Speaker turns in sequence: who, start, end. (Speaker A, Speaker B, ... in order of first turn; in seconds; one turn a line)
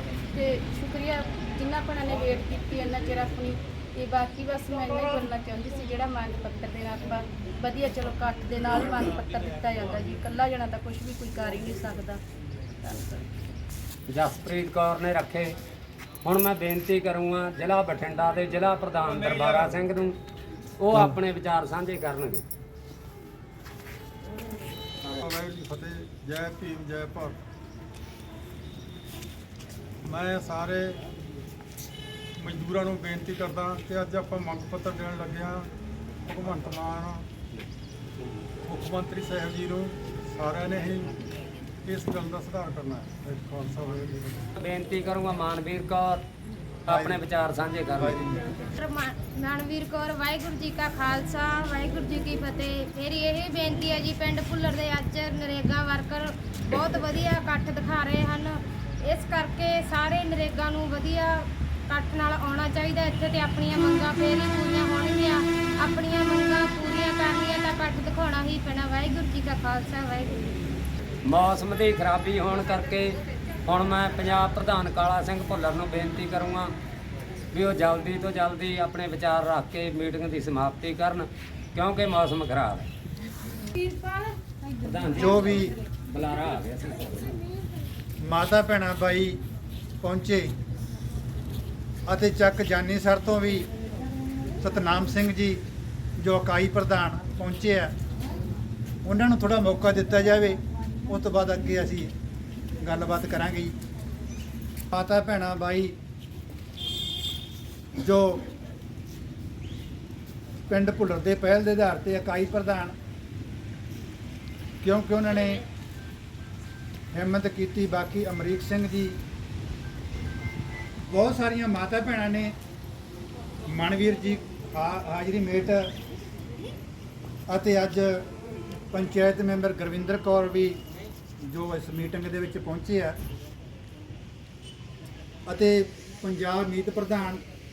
Speaker A: 0.3-12.2
Speaker A: 12.8-13.3
Speaker B: 14.1-15.6
Speaker B: 16.2-20.2
Speaker B: 20.8-22.4
Speaker C: 25.1-27.4
Speaker C: 30.0-31.0
Speaker C: 32.4-35.7
Speaker C: 36.2-37.3
Speaker C: 38.6-41.2
Speaker C: 41.9-44.5
Speaker B: 44.6-46.2
Speaker B: 46.9-48.2
Speaker D: 46.9-47.2
Speaker D: 48.0-48.5
Speaker E: 48.8-70.5
Speaker B: 71.2-76.7
Speaker B: 77.5-82.9
Speaker B: 84.8-87.4
Speaker D: 85.2-85.8
Speaker D: 88.2-89.4
Speaker D: 90.0-90.5
Speaker D: 92.1-93.7
Speaker D: 94.6-95.6
Speaker D: 96.2-97.9
Speaker D: 99.0-102.1
Speaker D: 102.8-103.7
Speaker D: 104.9-106.0
Speaker D: 108.0-108.5
Speaker D: 110.7-113.0
Speaker D: 114.8-115.6
Speaker D: 117.1-119.2
Speaker D: 121.1-122.5
Speaker D: 123.7-125.9
Speaker D: 127.5-128.3
Speaker D: 128.9-130.8
Speaker D: 131.4-133.2
Speaker D: 135.5-137.4